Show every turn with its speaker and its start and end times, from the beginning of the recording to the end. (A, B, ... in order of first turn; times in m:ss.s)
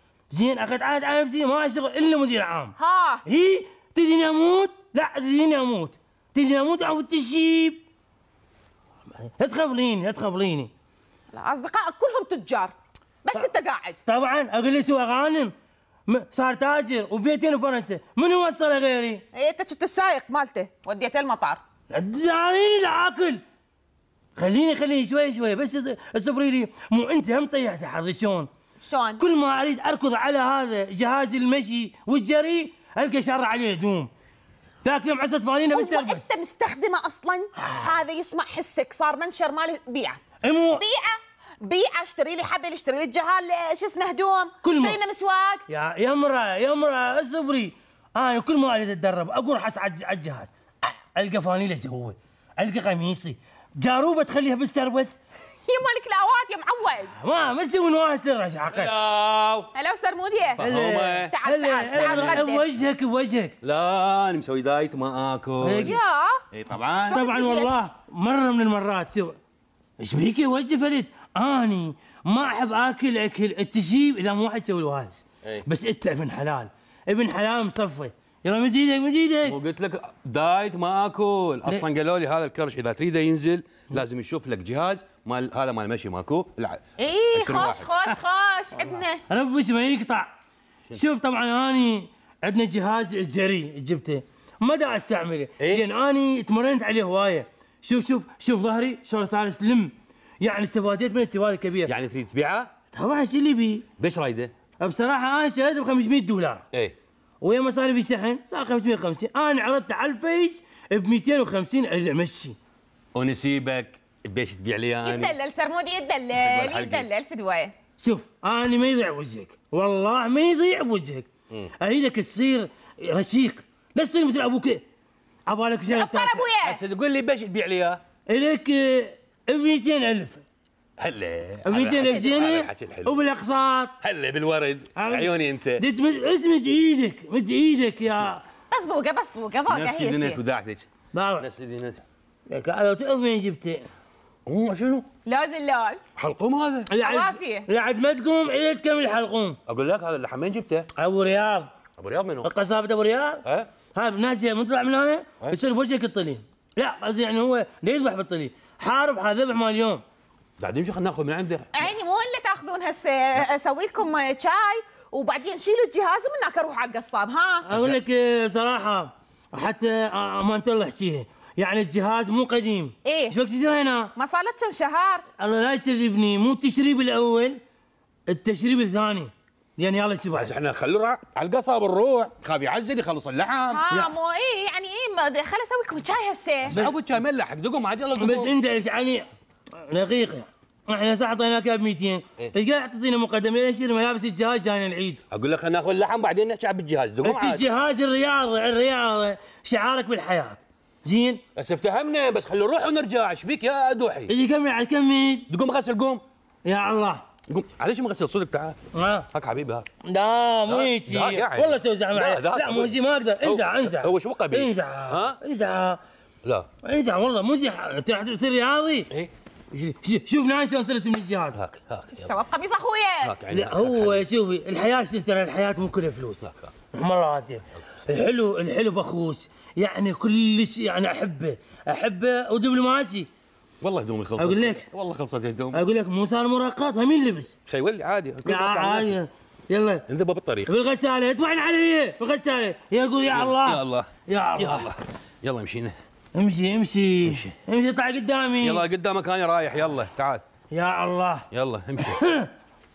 0:00.3-0:02.7 A
0:02.8-0:03.2 B
0:03.3-0:07.8 A
0:09.2-0:10.7 A
0:11.3-0:12.7 B
0:13.2-0:14.0 B
0:14.1-0:15.5 A
0:16.1-0:19.2 A
0:19.3-0:21.6 B
0:21.9-0:23.4 A
0:24.4-0:28.5 A
0:28.8-0:29.2 B
0:29.2-0:34.1 A
0:34.8-0:36.3 A
0:35.7-0:45.6 B
0:37.6-0:38.0 A
0:40.4-0:40.8 A
0:44.6-0:45.0 A
0:45.7-0:55.2 A
0:55.7-0:57.1 B
0:57.2-0:58.9 A
0:58.7-0:59.7 C
0:59.7-1:00.6 B
1:00.6-1:02.4 C
1:00.6-1:03.6 A
1:01.2-1:02.6 B
1:03.6-1:06.0 C
1:05.6-1:06.0 A
1:05.8-1:06.4 B
1:06.5-1:07.2 C
1:07.1-1:07.7 B
1:07.1-1:09.4 A
1:10.0-1:19.6 A
1:19.4-1:26.8 C
1:27.0-1:29.2 B
1:27.3-1:28.2 C
1:29.3-1:30.3 A
1:30.9-1:41.9 A
1:35.6-1:35.8 C
1:41.8-1:42.7 C
1:42.9-1:43.9 A
1:44.0-1:44.5 C
1:44.8-1:46.6 A
1:47.4-1:52.6 A
1:53.1-1:55.3 C
1:55.0-1:57.7 B
1:56.3-1:57.1 C
1:58.0-2:01.3 A
2:01.8-2:04.8 A
2:05.5-2:06.5 A
2:05.9-2:06.8 B
2:06.6-2:08.0 C
2:08.3-2:10.4 A
2:11.0-2:13.2 C
2:11.6-2:13.9 A
2:12.0-2:12.3 B
2:14.0-2:15.8 C
2:14.9-2:18.4 A
2:18.7-2:20.4 B
2:19.7-2:20.9 C
2:21.1-2:21.5 A
2:21.4-2:22.0 C
2:22.5-2:23.8 A
2:24.5-2:25.1 C
2:25.2-2:26.0 B
2:26.2-2:26.9 C
2:26.9-2:29.6 A
2:27.0-2:27.7 B
2:29.7-2:30.9 C
2:31.0-2:31.7 A
2:32.0-2:32.5 C
2:32.4-2:40.0 A
2:33.4-2:33.7 C
2:40.6-2:41.9 C
2:41.7-2:47.7 B
2:47.6-2:54.1 A
2:53.0-2:53.4 B
2:54.2-2:55.2 B
2:55.4-2:57.6 A
2:58.3-3:00.5 A
3:00.3-3:03.8 C
3:03.7-3:06.8 B
3:06.7-3:08.5 C
3:08.2-3:15.2 A
3:15.3-3:17.6 C
3:17.2-3:21.4 A
3:21.6-3:24.3 C
3:24.3-3:25.5 A
3:25.5-3:26.2 C
3:26.6-3:27.2 A
3:27.5-3:28.8 C
3:28.9-3:29.3 A
3:29.3-3:29.9 C
3:30.0-3:36.0 A
3:30.7-3:35.4 C
3:36.8-3:39.1 A
3:39.7-3:41.6 A
3:41.6-3:42.3 C
3:42.2-3:43.3 B
3:43.2-3:44.2 C
3:43.5-3:53.3 A
3:46.4-3:46.7 C
3:53.8-3:55.8 C
3:54.4-3:54.9 A
3:55.7-3:57.6 A
3:57.7-3:59.2 C
3:58.4-4:00.0 A
4:00.1-4:00.7 C
4:00.6-4:04.9 A
4:03.3-4:05.9 C
4:06.3-4:08.8 A
4:07.2-4:07.5 C
4:08.6-4:10.4 C
4:10.7-4:12.5 A
4:11.5-4:12.3 C